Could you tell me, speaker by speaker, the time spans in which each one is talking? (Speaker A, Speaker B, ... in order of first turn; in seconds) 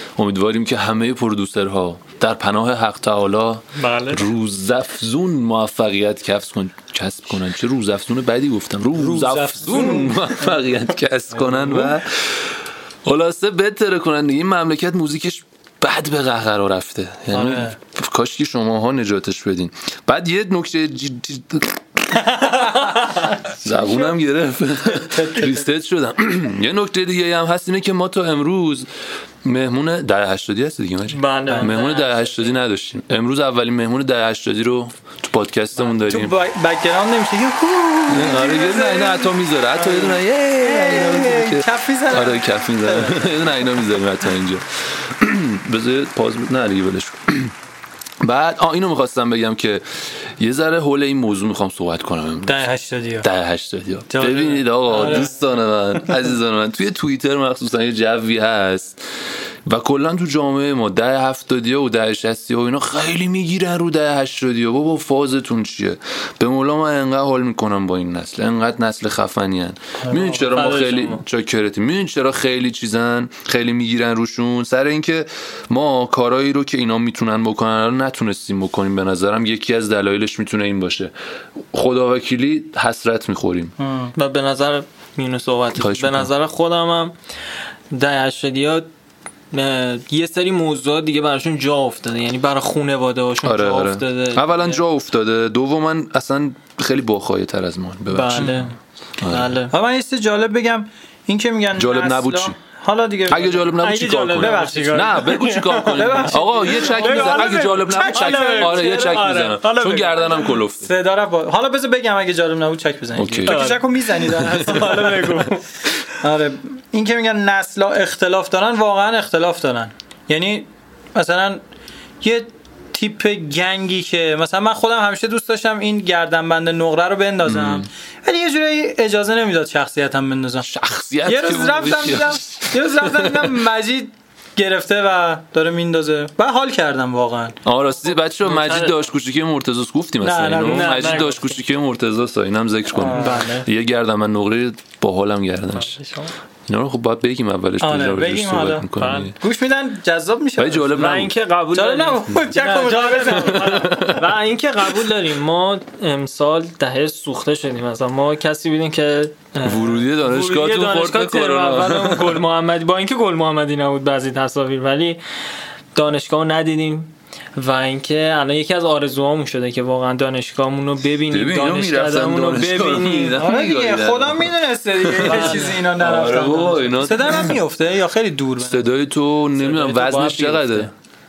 Speaker A: 0.2-28.9, 29.4-36.3, 38.1-47.5, 48.2-52.7, 53.2-59.0, 59.6-81.1, 81.7-83.7, 85.8-86.3, 93.4-98.7, 99.2-99.5, 101.8-102.5, 103.3-110.9, 113.2-113.7, 114.3-115.2, 127.5-127.9, 130.6-133.6, 137.6-146.0, 146.7-149.3, 150.6-151.3, 153.4-154.3, 159.6-162.4, 171.3-177.5, 178.6-180.9
Speaker B: 3.8-4.2, 31.1-32.6, 70.5-71.2, 84.2-87.1, 87.9-88.9, 89.5-94.8, 98.1-98.7, 99.3-99.7, 103.8-110.5, 113.5-115.6, 138.4-138.9, 140.6-141.5, 143.0-143.7, 145.9-146.3, 149.0-149.3, 150.9-165.2, 165.9-173.4, 175.2-175.6, 179.6-180.9
Speaker C: 8.9-10.6, 11.4-12.0, 17.3-17.8, 24.9-25.7, 31.5-31.8, 35.8-43.4, 52.5-53.3, 54.1-55.3, 70.0-70.4, 83.8-84.1, 98.3-98.7, 99.7-103.8, 104.4-105.2, 105.9-109.4, 110.8-115.5, 116.1-121.6, 122.2-130.7, 131.2-137.6, 140.2-141.2, 142.9-143.4, 147.8-151.0, 151.7-154.0, 173.3-178.9